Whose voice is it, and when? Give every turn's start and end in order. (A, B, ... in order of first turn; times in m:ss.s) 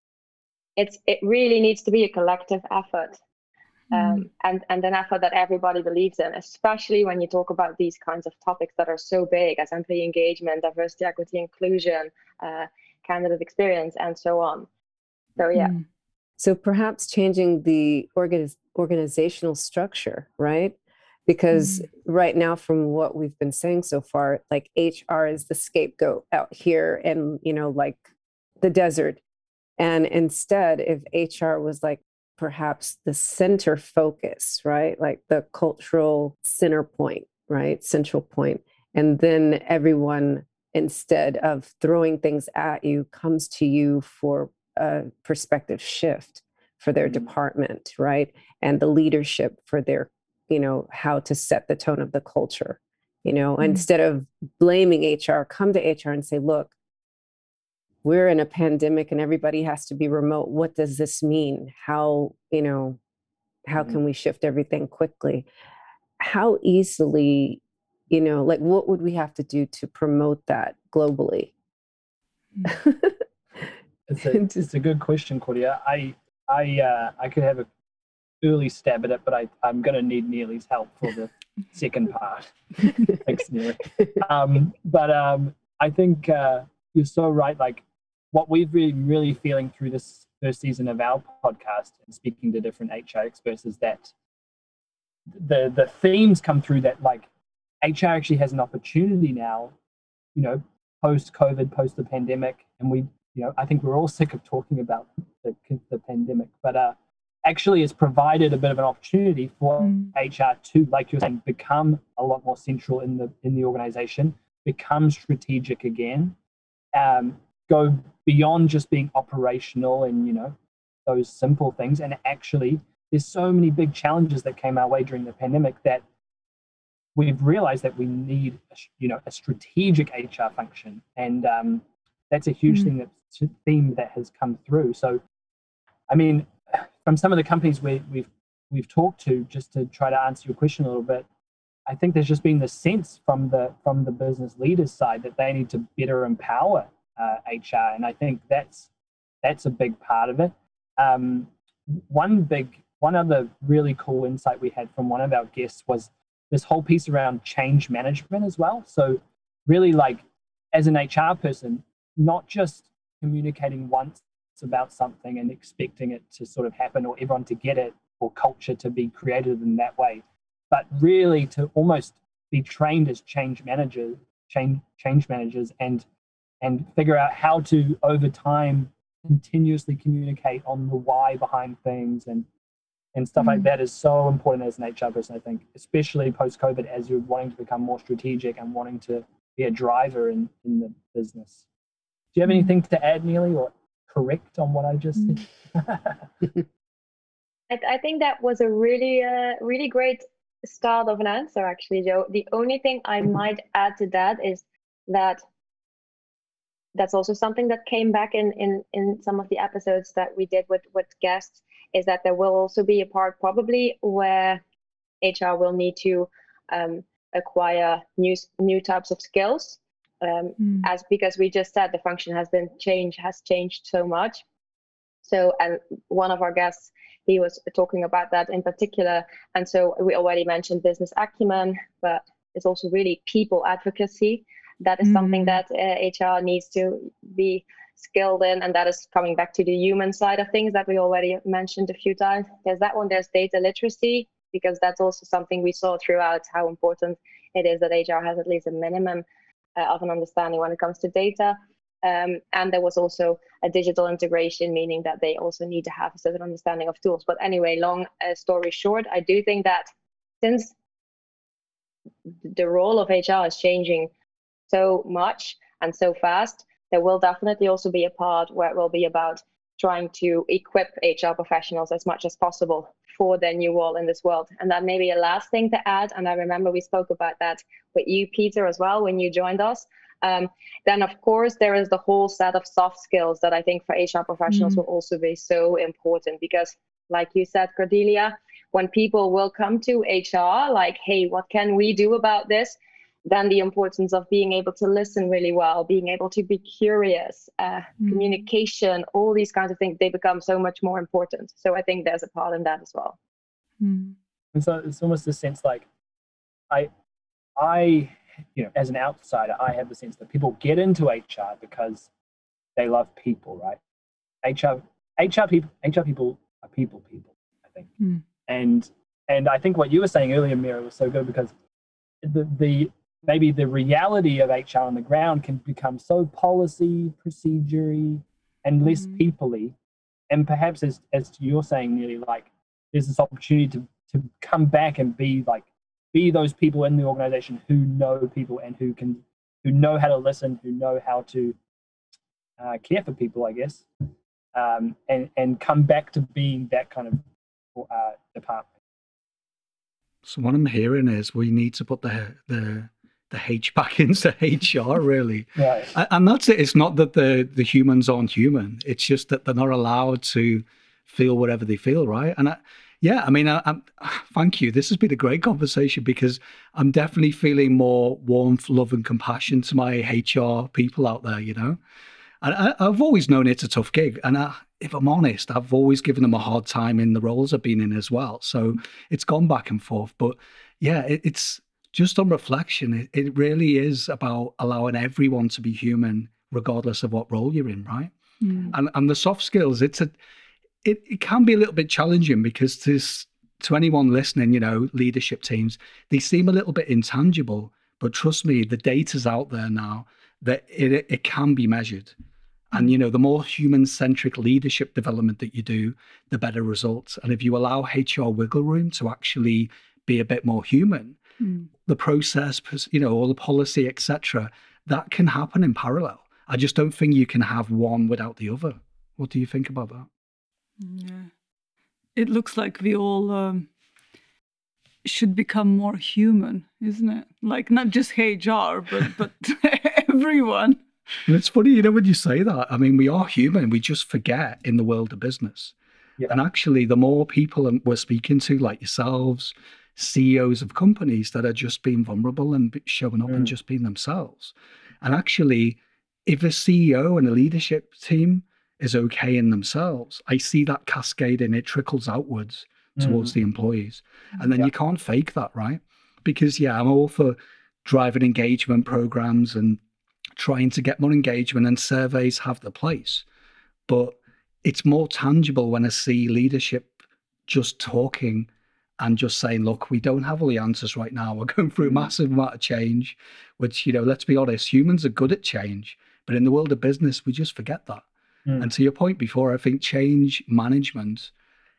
0:00.8-0:03.2 A
0:03.9-0:04.2 B
0:03.9-0:14.7 A
0:15.4-0:15.7 A
0:15.5-0:15.8 B
0:16.4-0:28.0 C
0:21.5-0:21.9 B
0:28.6-0:29.2 C
0:29.8-0:56.7 C
0:47.0-0:47.3 D
0:53.6-0:53.8 B
0:58.0-1:03.0 C
1:03.6-1:05.5 C
1:06.2-1:11.5 C
1:12.6-1:13.2 C
1:14.1-1:17.7 D
1:18.4-1:34.1 D
1:35.3-1:37.3 D
1:37.8-1:39.7 D
1:40.3-1:56.4 D
1:49.8-1:50.1 B
1:56.9-2:06.0 D
2:07.2-2:15.2 D
2:16.1-2:21.2 D
2:21.9-2:28.9 D
2:29.4-2:56.0 D
2:56.6-3:02.4 D
3:03.1-3:11.6 D
3:03.4-3:03.7 B
3:12.3-3:16.2 D
3:17.7-3:25.4 A
3:26.9-3:34.6 A
3:35.2-3:44.4 A
3:40.6-3:40.9 B
3:45.2-4:09.2 A
3:55.0-3:55.6 B
4:09.8-4:19.9 A
4:20.4-4:20.7 A
4:22.4-4:24.1 A
4:24.7-5:03.2 A
4:44.5-4:44.8 B
4:58.0-4:58.4 B
5:03.8-5:04.2 B
5:04.5-5:05.9 D
5:07.6-5:12.1 D
5:12.8-5:13.8 D
5:14.4-5:17.9 D
5:18.5-5:21.5 D
5:22.2-5:29.7 D
5:28.9-5:29.2 B
5:30.3-5:41.6 D
5:42.6-5:43.9 D
5:44.5-5:48.7 D
5:50.2-6:11.8 E
5:55.6-5:55.9 D
6:12.4-6:28.1 E
6:28.4-6:28.7 B
6:28.7-6:30.1 E
6:30.8-6:42.1 E
6:42.7-6:51.2 E
6:51.4-6:51.7 B
6:51.8-7:00.1 E
7:00.8-7:01.3 B
7:02.2-7:03.7 B
7:05.0-7:10.8 B
7:11.3-7:15.7 E
7:16.3-7:39.8 E
7:23.3-7:23.5 D
7:33.0-7:33.3 D
7:40.4-7:43.2 E
7:43.9-7:46.9 E
7:47.5-7:48.5 E
7:49.0-7:58.0 E
7:51.8-7:52.1 D
7:58.6-8:01.3 E